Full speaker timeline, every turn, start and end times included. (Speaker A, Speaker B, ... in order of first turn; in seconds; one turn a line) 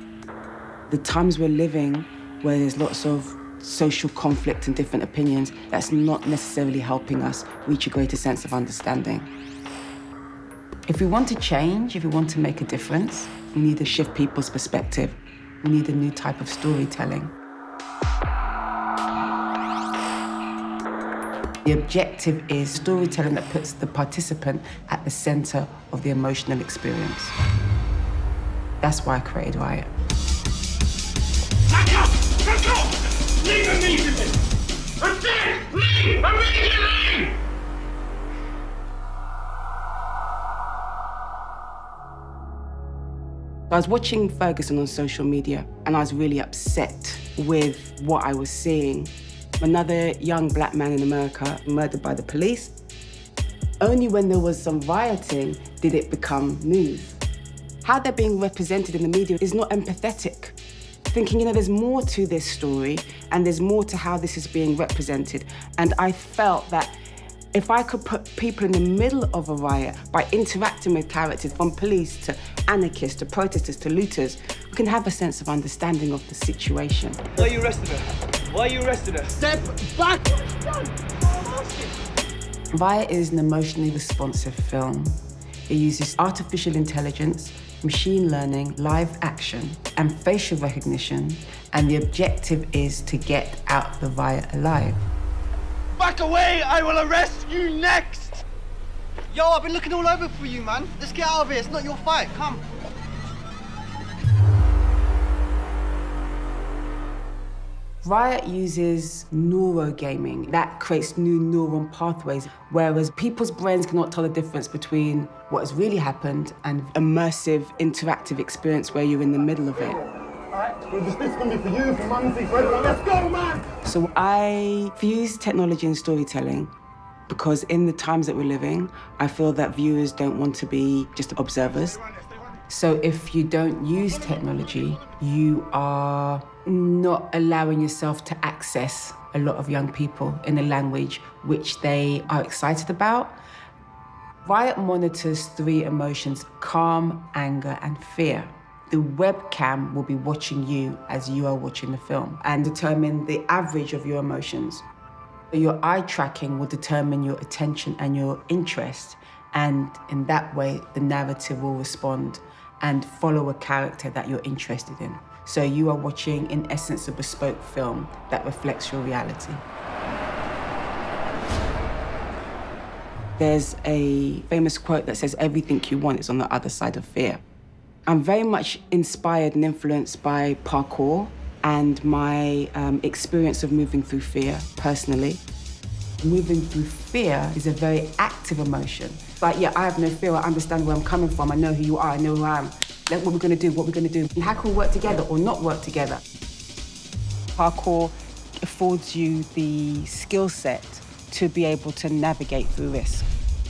Speaker A: 0.9-9.3
Speaker A: 10.9-17.3
Speaker A: 21.6-27.4
Speaker A: 28.8-29.9
Speaker B: 33.4-34.2
Speaker A: 43.7-52.7
Speaker A: 53.8-57.2
Speaker A: 57.8-60.6
Speaker A: 61.1-67.0
Speaker A: 67.5-77.4
Speaker C: 77.4-80.4
Speaker C: 81.3-81.9
Speaker A: 82.7-95.1
Speaker C: 96.0-98.5
Speaker C: 99.3-102.7
Speaker A: 108.0-120.1
Speaker B: 120.7-123.6
Speaker A: 123.8-126.7
Speaker A: 127.3-132.1
Speaker A: 132.7-143.4
Speaker A: 144.4-154.8
Speaker A: 155.5-169.6
Speaker A: 173.4-177.4
Speaker A: 178.1-185.4
Speaker A: 186.2-196.2
Speaker A: 197.6-203.3